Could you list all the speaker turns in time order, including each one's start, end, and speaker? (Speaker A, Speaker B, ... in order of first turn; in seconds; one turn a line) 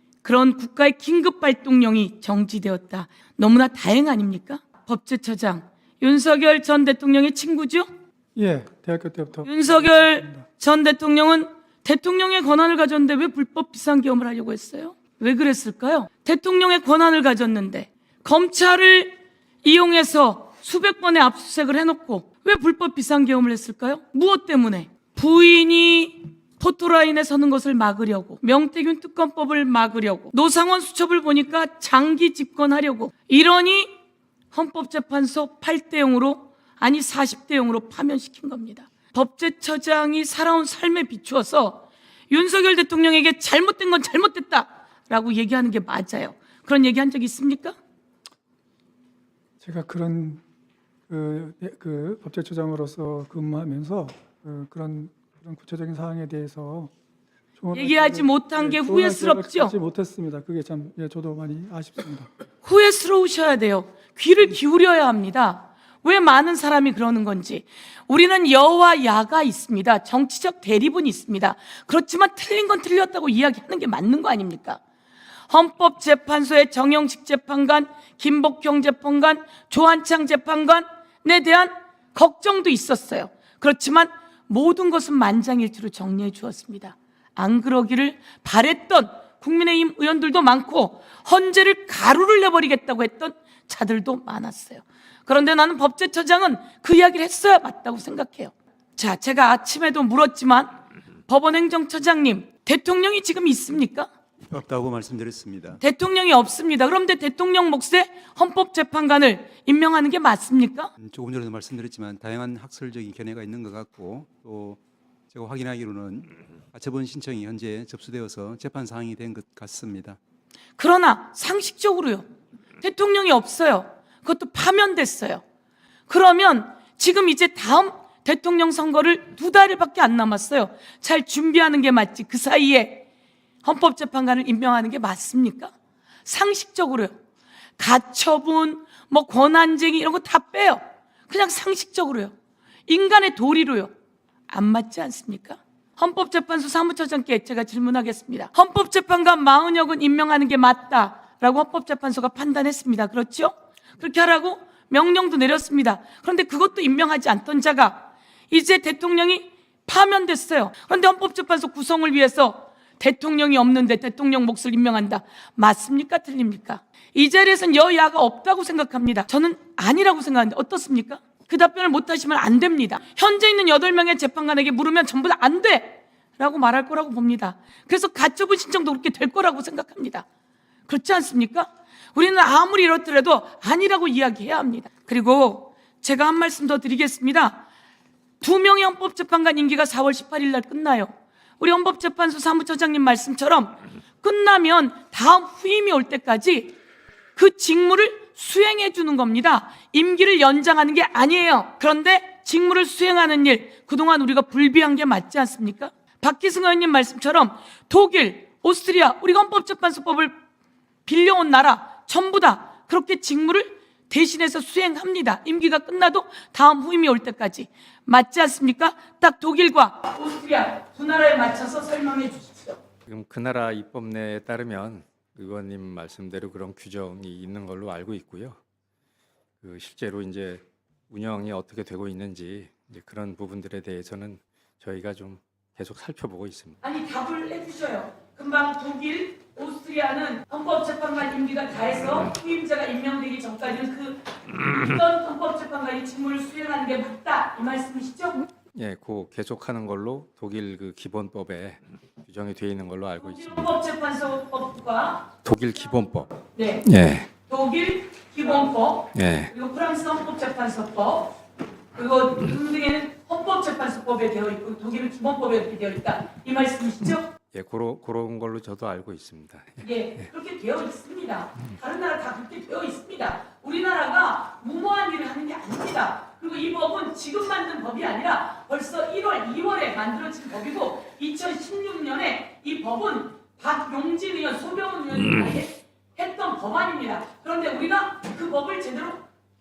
Speaker A: 0.2-7.9
Speaker B: 8.3-10.4
Speaker A: 9.4-33.9
Speaker A: 34.5-47.8
Speaker B: 49.6-50.4
Speaker B: 51.1-56.9
Speaker B: 57.6-62.3
Speaker A: 57.7-59.7
Speaker A: 62.6-74.8
Speaker A: 75.5-104.1
Speaker C: 104.5-105.8
Speaker A: 105.8-110.9
Speaker C: 111.0-120.2
Speaker A: 120.8-122.2
Speaker A: 122.8-125.4
Speaker A: 126.1-133.1
Speaker A: 133.6-135.7
Speaker A: 136.2-137.1
Speaker A: 137.8-142.3
Speaker A: 142.9-143.9
Speaker A: 144.5-180.2
Speaker A: 180.9-187.6
Speaker A: 188.4-196.7
Speaker A: 197.3-210.3
Speaker A: 211.1-222.8
Speaker D: 223.1-228.6
Speaker D: 229.6-236.8
Speaker A: 236.8-248.4
Speaker D: 248.7-253.7
Speaker A: 253.2-255.3
Speaker D: 255.4-257.3
Speaker A: 256.5-256.9
Speaker A: 257.5-261.3
Speaker D: 259.1-259.5
Speaker A: 261.9-267.3
Speaker D: 267.5-269.8
Speaker A: 269.8-289.2